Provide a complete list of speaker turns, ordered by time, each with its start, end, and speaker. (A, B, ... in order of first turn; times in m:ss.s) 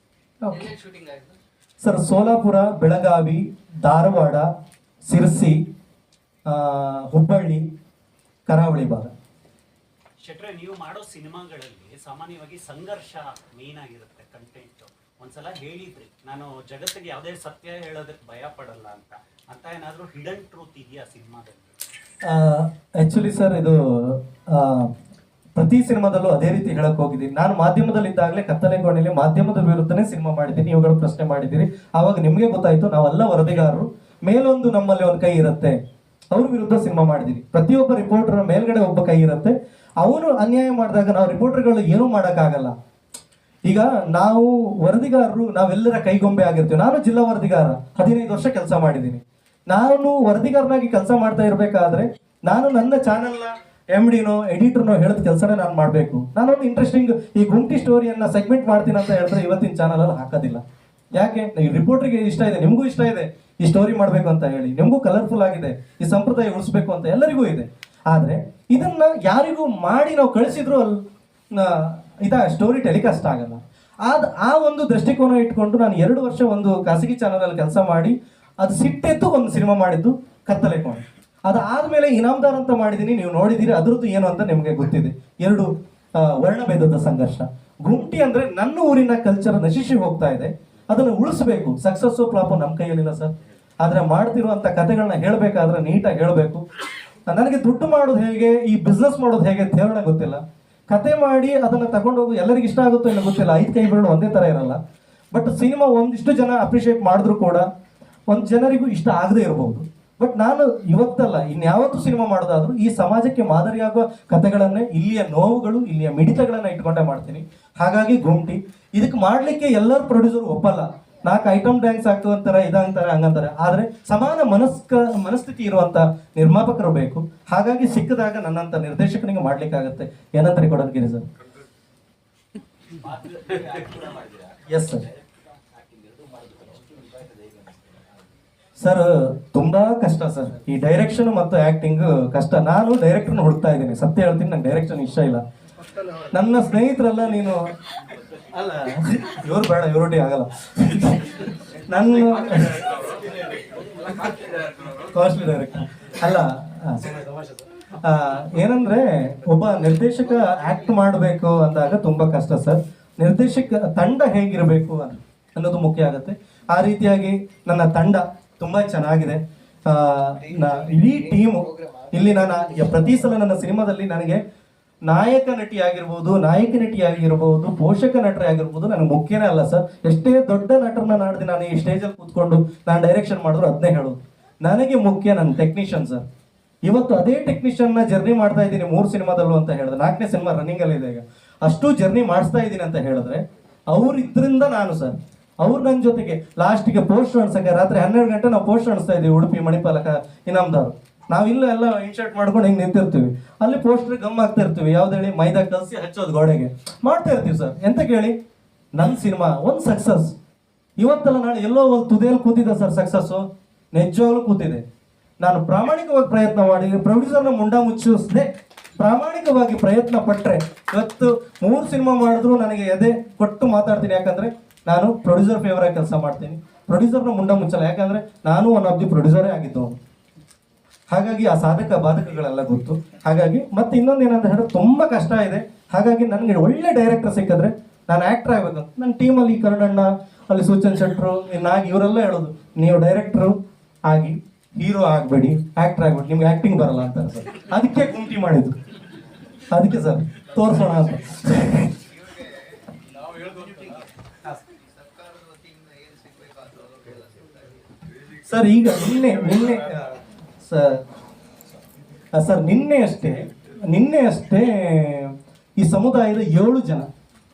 0:00.4-0:00.7 A
0:00.8-0:01.3 B
0:01.8-0:04.5 A
0:05.0-0:05.6 A
0:06.4-0:07.6 A
0:08.5-0:09.1 A
0:10.2-0:21.8 C
0:22.2-0:24.9 A
0:25.6-0:35.8 A
0:36.3-0:42.7 A
0:43.7-1:00.6 A
1:01.1-1:11.0 A
1:11.5-1:36.6 A
1:37.3-1:44.8 A
1:45.3-1:47.6 A
1:48.3-2:11.2 A
2:13.0-2:18.2 C
2:14.7-2:15.0 A
2:18.8-2:25.4 A
2:26.3-2:27.7 A
2:28.5-2:33.0 A
2:33.1-2:34.8 C
2:35.0-2:37.2 A
2:37.2-2:37.6 C
2:38.0-2:54.4 A
2:50.5-2:53.0 B
2:55.1-3:06.2 A
3:06.9-3:28.3 A
3:28.9-3:30.3 A
3:31.0-3:34.8 A
3:35.4-3:50.0 A
3:51.1-4:03.5 A
4:04.1-4:08.8 A
4:09.7-4:11.9 A
4:13.5-4:13.9 B
4:14.8-4:17.8 B
4:18.4-4:21.0 A
4:22.3-4:27.1 A